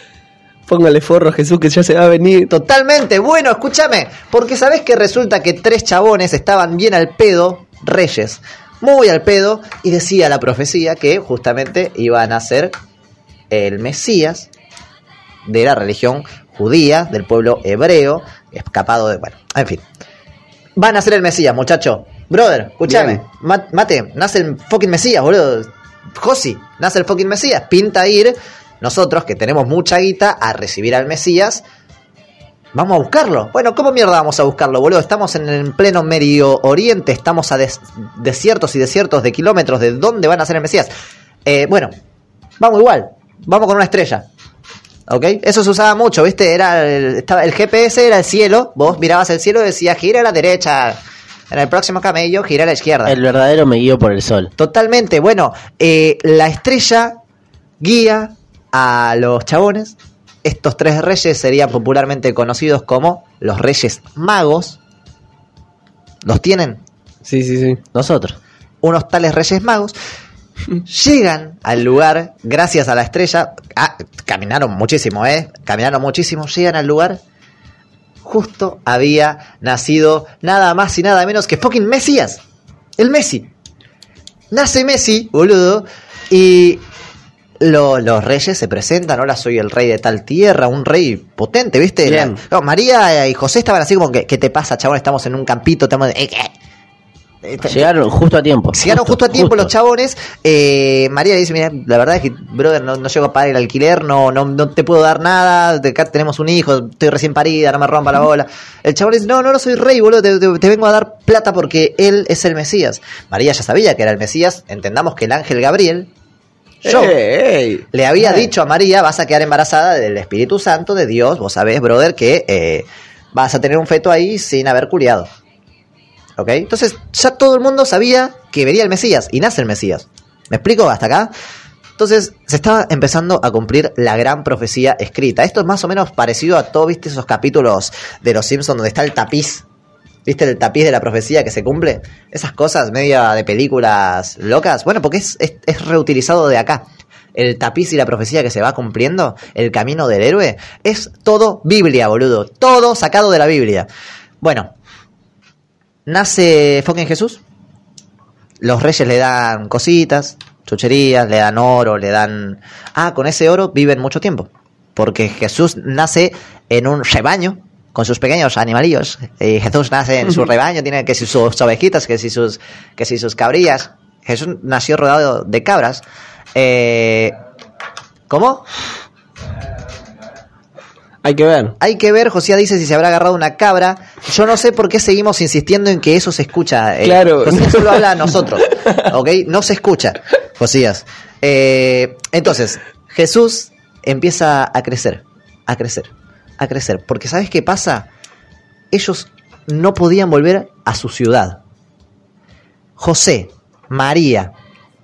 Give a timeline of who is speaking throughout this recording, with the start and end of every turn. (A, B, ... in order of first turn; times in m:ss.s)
0:00.7-0:02.5 A
0:02.5-0:12.7 B
0:13.5-0:14.5 B
0:15.4-0:19.8 B
0:20.8-0:31.6 B
0:32.7-0:40.9 B
0:41.4-0:41.9 B
0:42.6-0:44.3 B
0:45.1-0:51.0 B
0:51.5-0:53.2 B
0:53.0-0:54.5 C
0:54.6-0:57.2 B
0:57.8-1:04.8 B
1:06.2-1:06.8 B
1:07.2-1:07.8 A
1:07.9-1:08.4 C
1:08.8-1:09.9 B
1:10.9-1:17.2 B
1:18.2-1:22.4 B
1:23.0-1:23.5 B
1:24.5-1:26.8 B
1:27.6-1:36.5 B
1:32.0-1:32.4 A
1:37.4-1:37.9 B
1:37.6-1:39.7 C
1:38.7-1:56.1 B
1:56.8-1:58.3 A
1:56.9-1:57.1 B
1:57.9-2:05.3 B
2:06.4-2:11.3 B
2:12.0-2:19.6 B
2:20.2-2:33.9 B
2:34.4-2:34.7 B
2:36.0-2:37.4 B
2:38.6-2:56.0 B
2:56.5-2:57.4 B
2:58.3-2:58.6 B
3:01.2-3:01.8 A
3:01.8-3:18.1 B
3:07.0-3:09.0 A
3:18.9-3:21.6 B
3:23.0-3:24.5 B